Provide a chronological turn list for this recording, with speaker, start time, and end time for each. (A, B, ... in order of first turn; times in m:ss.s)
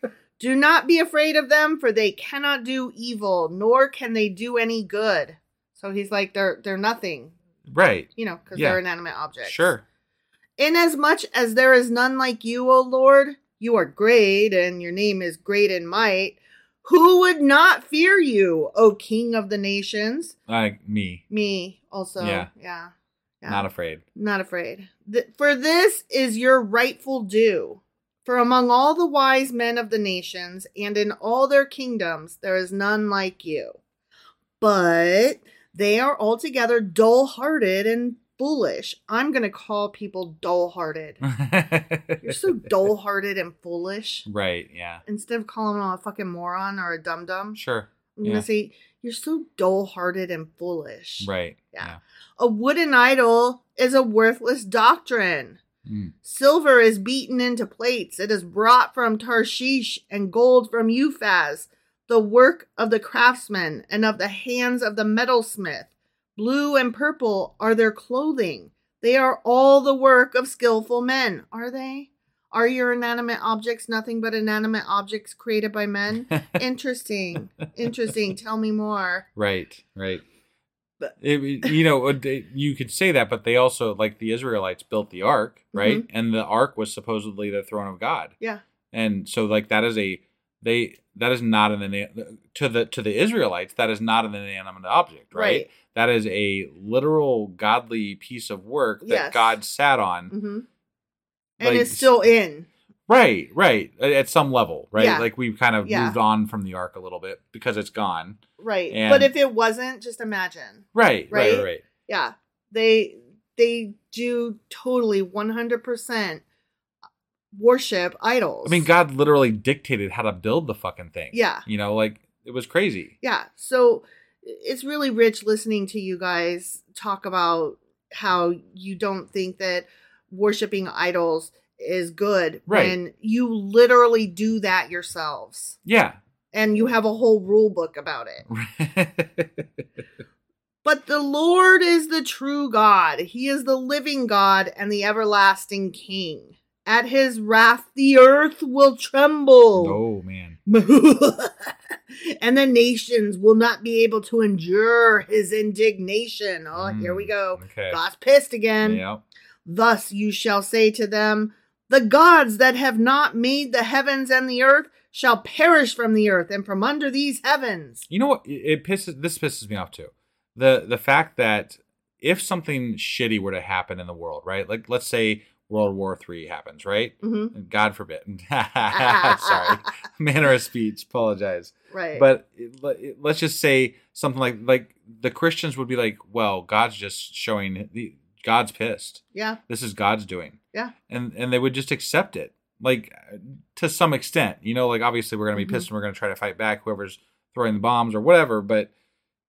0:00.4-0:07.3 A
0:07.7-0:08.8 B
0:08.2-0:09.7 A
0:09.4-0:09.8 B
0:10.6-0:20.3 A
0:20.5-0:21.2 B
0:21.3-0:22.9 A
0:22.2-0:22.5 B
0:23.4-0:33.8 A
0:23.5-0:24.0 B
0:34.6-0:41.2 A
0:41.2-0:42.5 B
0:42.2-0:44.2 A
0:44.2-0:45.0 B
0:45.0-0:47.6 A
0:47.5-0:48.4 B
0:48.2-0:55.6 A
0:51.2-0:52.0 B
0:55.8-0:56.1 B
0:56.2-1:19.2 A
1:16.3-1:16.6 B
1:19.4-1:20.2 B
1:21.0-1:21.7 A
1:21.2-1:28.3 B
1:25.7-1:26.0 A
1:28.9-1:40.3 B
1:35.3-1:35.7 A
1:39.0-1:39.5 A
1:40.3-1:40.6 A
1:41.6-1:42.3 B
1:41.6-1:42.7 A
1:43.1-1:49.3 B
1:45.0-1:45.3 A
1:45.8-1:46.2 A
1:48.6-1:56.4 A
1:50.9-1:51.8 B
1:57.5-1:58.9 A
1:58.6-2:03.1 B
2:01.3-2:01.6 A
2:03.2-2:15.8 A
2:12.7-2:13.0 B
2:15.8-2:16.2 B
2:16.5-2:18.4 A
2:18.5-2:19.6 B
2:20.8-2:30.0 A
2:29.8-2:30.6 B
2:30.6-2:39.0 A
2:36.7-2:38.0 B
2:38.8-2:39.2 B
2:39.6-2:48.0 A
2:48.1-3:10.6 B
2:57.2-2:57.5 A
2:58.9-2:59.8 A
3:01.9-3:02.2 A
3:09.3-3:09.6 A
3:11.1-3:18.9 B
3:15.5-3:15.8 A